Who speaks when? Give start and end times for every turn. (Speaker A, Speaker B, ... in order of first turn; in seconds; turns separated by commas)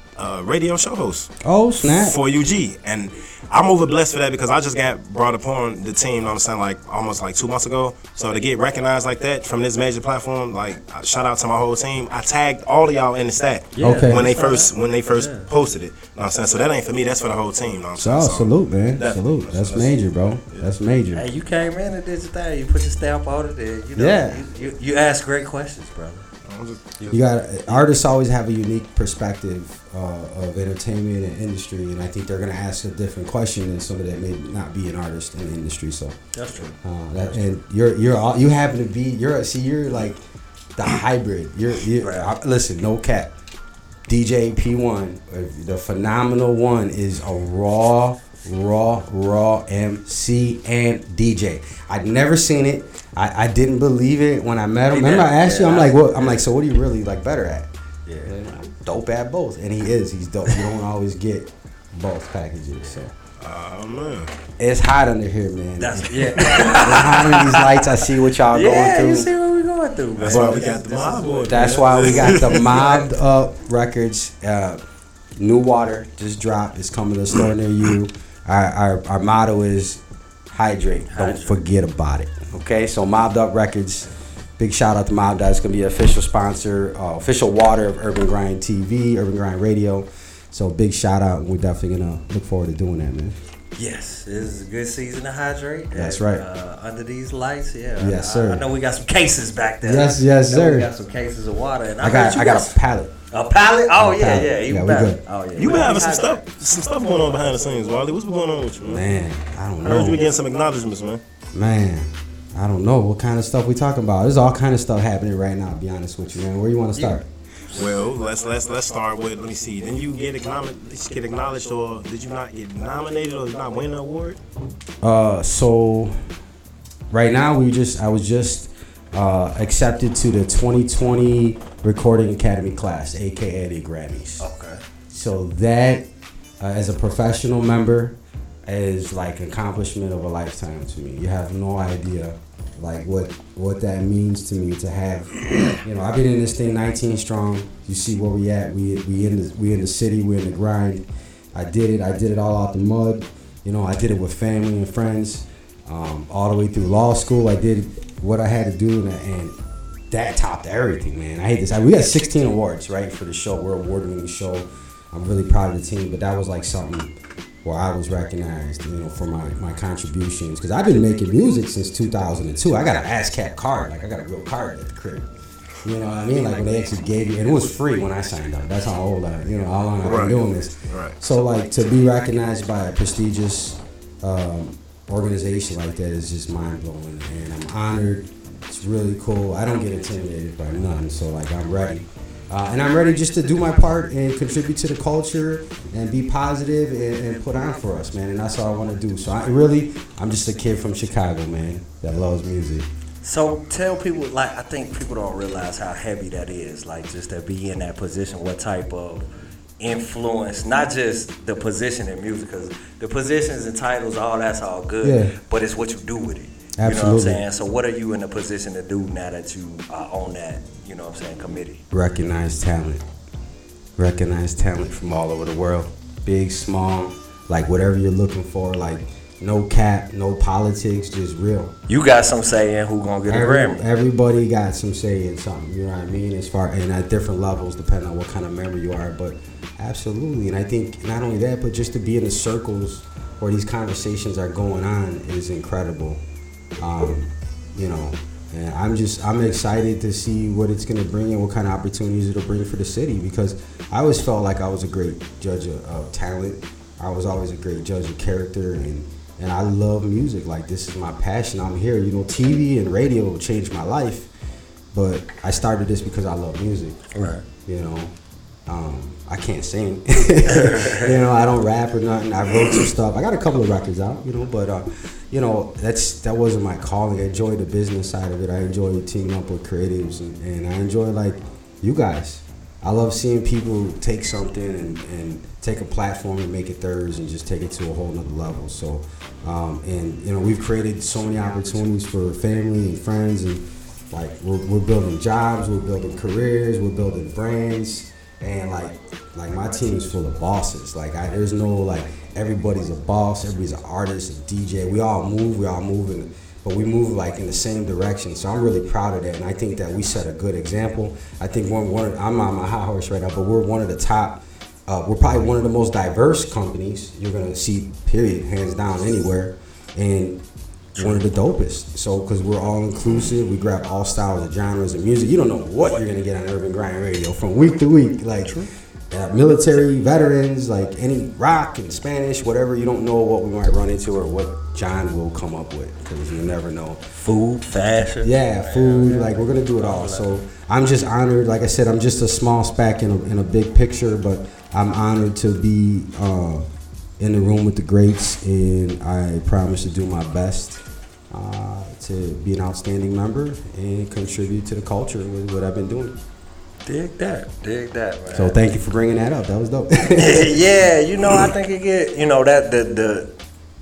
Speaker A: 0.2-20.0, Speaker B: 1.4-2.2, Speaker C: 13.8-15.5, Speaker B: 13.8-14.3, Speaker B: 18.0-21.2, Speaker C: 21.1-26.2, Speaker B: 23.9-24.4, Speaker A: 26.4-27.2, Speaker B: 27.1-36.2, Speaker C: 36.3-36.8, Speaker B: 36.8-40.2, Speaker B: 40.8-43.3, Speaker C: 42.0-42.3, Speaker B: 44.1-57.7, Speaker C: 54.9-56.4, Speaker C: 58.1-58.3, Speaker B: 58.2-63.1, Speaker A: 63.4-64.3, Speaker B: 64.6-69.3, Speaker C: 65.8-67.8, Speaker C: 68.5-72.4, Speaker A: 70.2-73.0, Speaker B: 70.3-70.7, Speaker B: 71.5-74.8, Speaker B: 75.4-93.4, Speaker C: 81.1-81.5, Speaker C: 93.8-102.8, Speaker B: 95.9-96.4, Speaker B: 98.0-98.6, Speaker B: 99.8-100.9, Speaker B: 102.0-103.1, Speaker C: 103.3-107.5, Speaker B: 103.8-105.2, Speaker A: 105.6-109.0, Speaker B: 108.8-110.2, Speaker A: 109.8-111.2, Speaker B: 111.5-117.3, Speaker A: 117.7-124.4, Speaker B: 125.0-126.2, Speaker B: 127.1-134.4, Speaker C: 134.4-134.8, Speaker B: 135.1-136.1, Speaker B: 136.6-159.6, Speaker B: 160.1-175.3, Speaker B: 175.8-202.9, Speaker A: 180.0-181.2, Speaker C: 203.2-209.3, Speaker C: 209.8-221.8, Speaker B: 215.0-215.3, Speaker B: 216.8-217.4, Speaker B: 221.9-223.0, Speaker B: 224.0-231.7, Speaker C: 231.9-233.8, Speaker B: 233.3-246.2, Speaker B: 246.8-264.3, Speaker B: 264.9-267.0, Speaker C: 267.1-267.4, Speaker B: 267.7-268.1, Speaker B: 268.7-320.4, Speaker C: 270.5-271.1, Speaker C: 320.9-321.3, Speaker B: 321.0-337.0, Speaker C: 337.2-340.3, Speaker B: 338.2-346.7, Speaker B: 347.2-356.2, Speaker C: 356.9-358.6, Speaker B: 358.3-360.6, Speaker C: 360.2-363.3